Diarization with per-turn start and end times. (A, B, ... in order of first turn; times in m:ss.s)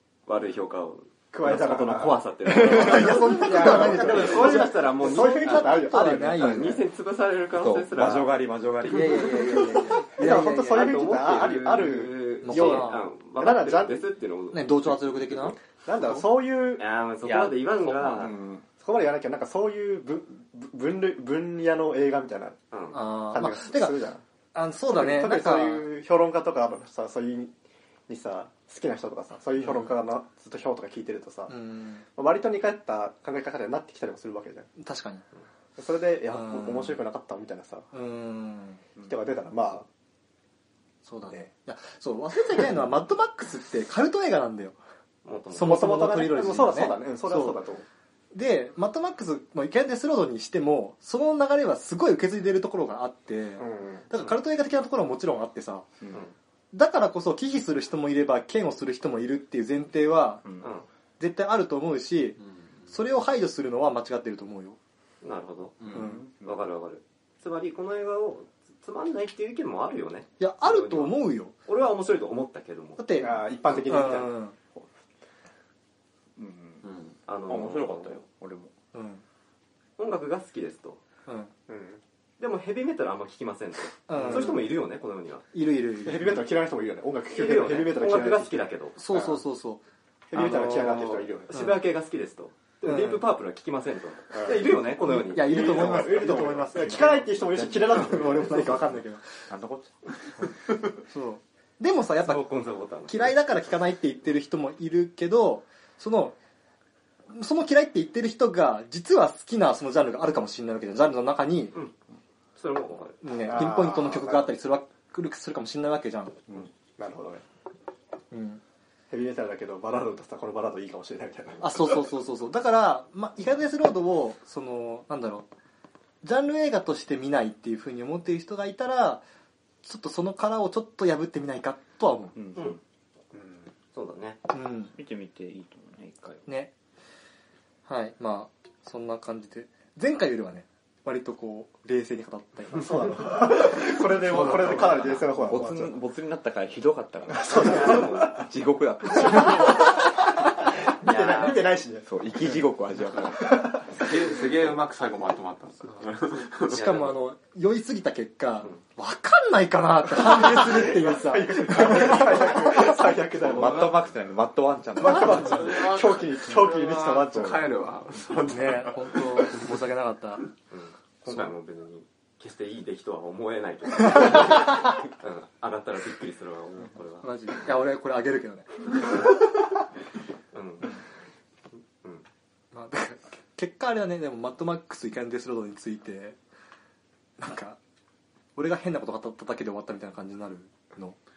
0:00.3-0:08.3 A
0:01.3-0:06.8 B
0:02.6-0:06.8 C
0:07.7-0:09.7 D
0:07.7-0:09.7 E
0:08.9-0:10.9 C
0:10.2-0:14.0 B
0:10.3-0:15.0 A
0:12.4-0:13.0 C
0:14.5-0:15.6 C
0:15.8-0:16.8 B
0:16.8-0:18.3 A
0:17.2-0:18.6 E
0:18.8-0:22.6 B
0:22.7-0:23.0 A
0:22.9-0:24.0 C
0:23.2-0:24.2 B
0:24.5-0:25.9 C
0:24.9-0:27.5 B
0:28.1-0:31.5 B
0:31.5-0:32.0 C
0:32.2-0:34.7 B
0:34.8-0:35.2 C
0:35.8-0:37.9 B
0:36.3-0:37.0 C
0:37.9-0:38.8 C
0:39.0-0:39.9 B
0:41.0-0:44.8 C
0:45.2-0:45.8 A
0:45.5-0:47.6 C
0:45.6-0:47.8 B
0:48.3-0:55.9 C
0:53.6-0:54.1 B
0:56.7-1:00.4 C
1:00.6-1:00.9 A
1:01.2-1:04.8 C
1:05.2-1:13.3 A
1:05.8-1:06.1 D
1:05.9-1:06.2 C
1:06.0-1:06.5 E
1:10.4-1:11.6 C
1:13.0-1:14.6 C
1:13.2-1:14.9 B
1:16.4-1:16.8 E
1:16.8-1:17.1 D
1:17.3-1:18.2 A
1:17.5-1:18.7 E
1:18.9-1:19.2 C
1:20.0-1:21.0 A
1:21.3-1:21.5 C
1:21.7-1:22.0 B
1:22.4-1:25.5 A
1:24.1-1:24.7 C
1:24.2-1:24.6 B
1:25.5-1:26.4 C
1:26.0-1:29.4 B
1:27.3-1:29.0 A
1:29.0-1:31.8 C
1:30.3-1:31.6 B
1:30.9-1:38.7 A
1:32.9-1:33.2 C
1:34.3-1:38.9 B
1:35.0-1:37.2 C
1:37.9-1:39.3 C
1:39.5-1:40.1 E
1:41.1-1:42.4 C
1:42.2-1:43.4 A
1:43.1-1:46.4 C
1:47.3-1:51.8 C
1:52.6-1:53.2 A
1:53.2-1:56.4 C
1:53.4-1:54.5 B
1:57.0-1:57.4 B
1:58.3-1:58.6 C
1:59.1-2:02.0 B
2:01.6-2:05.5 C
2:06.2-2:09.2 C
2:09.8-2:12.3 C
2:12.4-2:12.7 E
2:13.3-2:14.4 A
2:14.5-2:14.9 C
2:15.0-2:16.4 E
2:16.5-2:16.7 C
2:17.9-2:22.9 C
2:22.7-2:26.0 B
2:24.6-2:29.8 E
2:27.3-2:28.3 B
2:27.5-2:28.4 A
2:29.2-2:29.8 B
2:30.8-2:32.6 B
2:31.0-2:31.7 A
2:32.1-2:33.5 E
2:33.3-2:34.0 B
2:33.9-2:36.7 D
2:36.7-2:37.1 A
2:36.7-2:43.0 C
2:40.2-2:44.0 B
2:43.4-2:45.5 E
2:45.0-2:47.7 B
2:45.1-2:49.7 D
2:48.4-2:50.5 C
2:50.7-2:57.3 A
2:57.2-2:58.7 C
3:00.5-3:01.0 A
3:02.7-3:06.4 C
3:07.4-3:07.8 C
3:08.6-3:11.2 C